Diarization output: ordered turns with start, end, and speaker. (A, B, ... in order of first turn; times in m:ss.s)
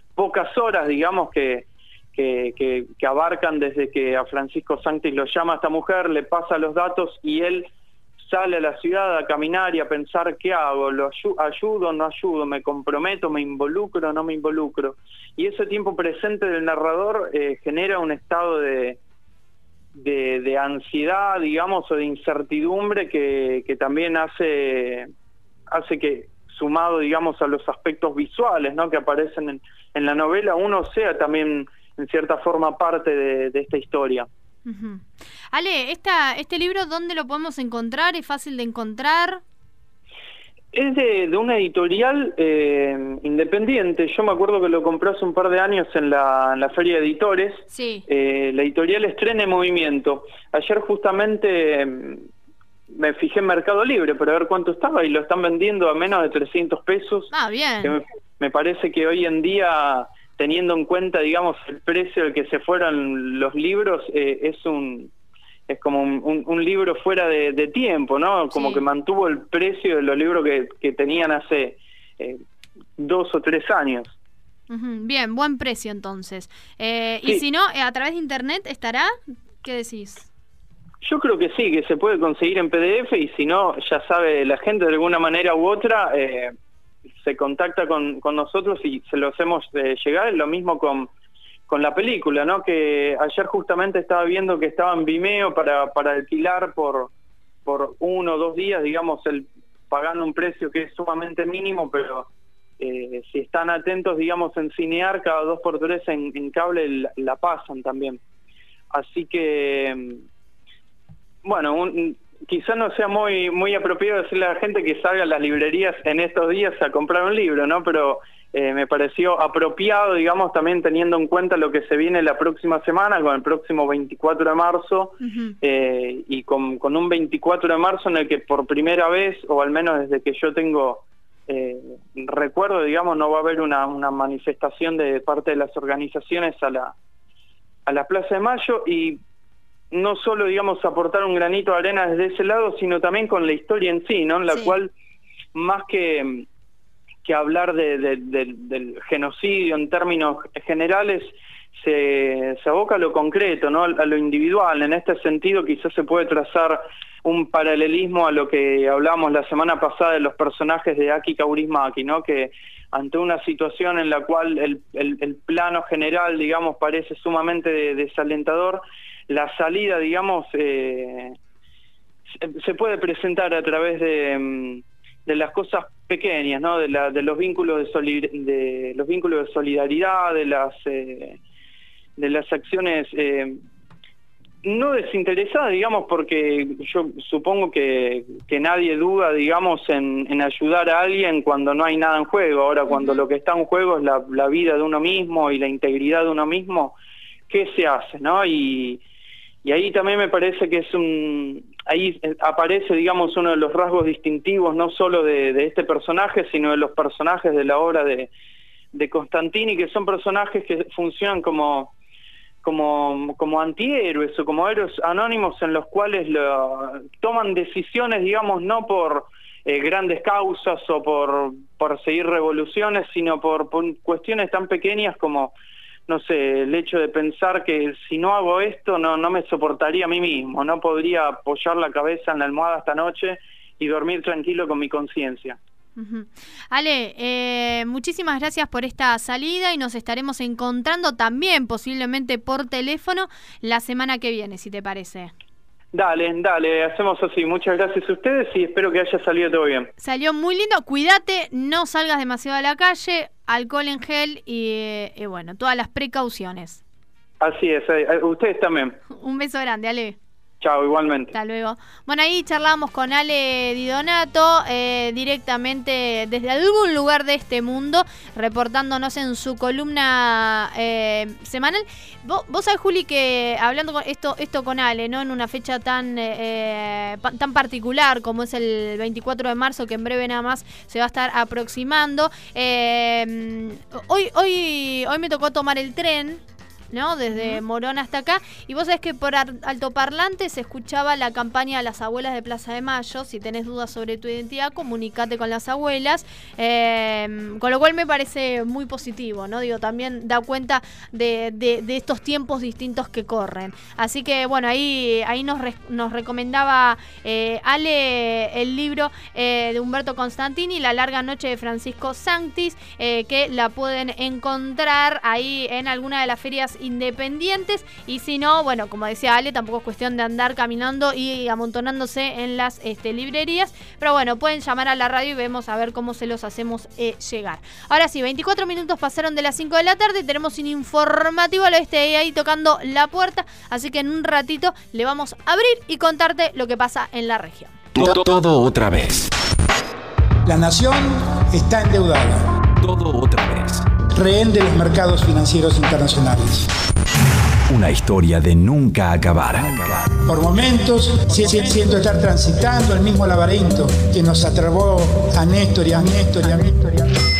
0:00.2-0:19.0 A
0:19.9-0:25.1 A
0:25.7-0:34.3 A
0:34.6-0:39.4 B
0:40.7-0:52.2 A
0:47.7-0:48.0 B
0:52.9-0:57.3 A
0:57.3-0:58.0 B
0:57.8-1:05.1 A
1:05.7-1:12.4 A
1:08.5-1:08.8 B
1:13.0-1:14.1 A
1:14.7-1:20.3 B
1:21.0-1:26.5 A
1:27.2-1:31.1 A
1:31.7-1:37.1 A
1:37.6-1:42.3 A
1:42.8-1:48.2 A
1:48.9-1:50.2 A
1:51.4-2:16.9 A
2:05.2-2:05.5 B
2:17.9-2:19.2 A
2:19.9-2:24.9 A
2:24.5-2:24.8 B
2:25.5-2:26.5 A
2:27.2-2:51.4 A
2:52.4-3:01.4 A
3:02.2-3:03.6 A
3:04.6-3:17.0 A
3:12.9-3:13.2 B
3:17.5-3:19.0 A
3:19.6-3:28.3 A
3:28.9-3:31.9 A
3:32.6-3:45.5 A
3:46.1-3:55.6 A
3:56.0-4:05.3 B
4:05.9-4:09.9 A
4:10.0-4:16.8 B
4:17.4-4:19.0 A
4:19.1-4:20.2 B
4:20.6-4:21.3 A
4:21.3-5:37.8 B
4:47.3-4:47.6 A
5:37.9-5:39.3 C
5:40.4-5:42.4 D
5:42.8-5:43.8 C
5:44.1-5:46.6 D
5:47.7-5:50.1 C
5:50.2-5:57.1 D